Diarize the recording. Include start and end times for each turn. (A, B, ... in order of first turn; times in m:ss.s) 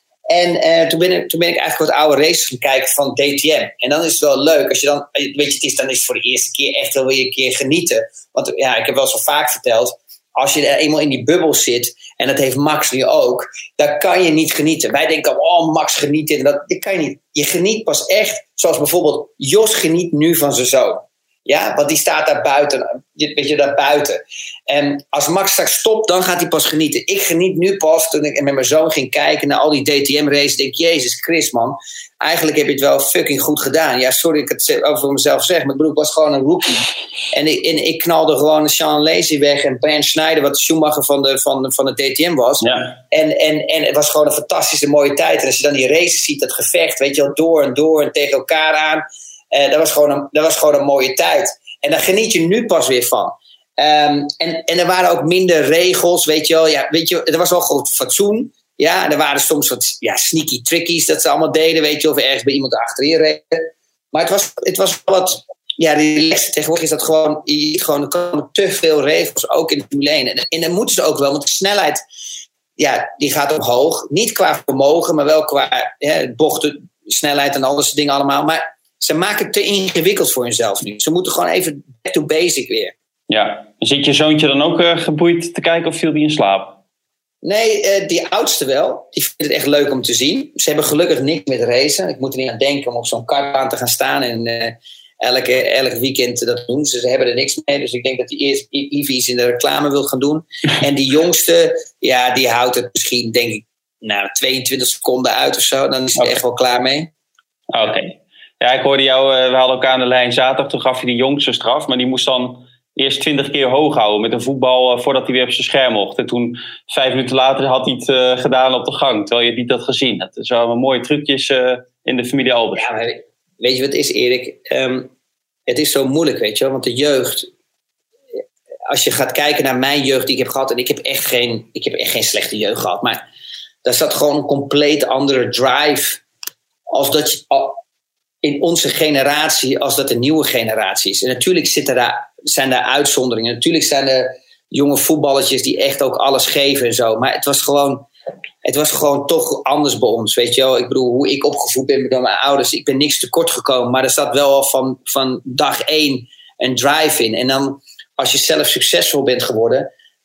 0:00.3-1:12.0 A
0:42.6-0:42.9 B
1:12.8-1:22.9 A
1:23.3-1:26.8 B
1:27.4-1:47.1 A
1:47.7-2:02.9 B
2:02.7-2:05.1 A
2:05.7-2:07.5 A
2:08.9-2:13.2 A
2:13.8-2:16.2 A
2:16.9-2:17.8 A
2:18.4-2:28.1 A
2:28.6-2:39.9 A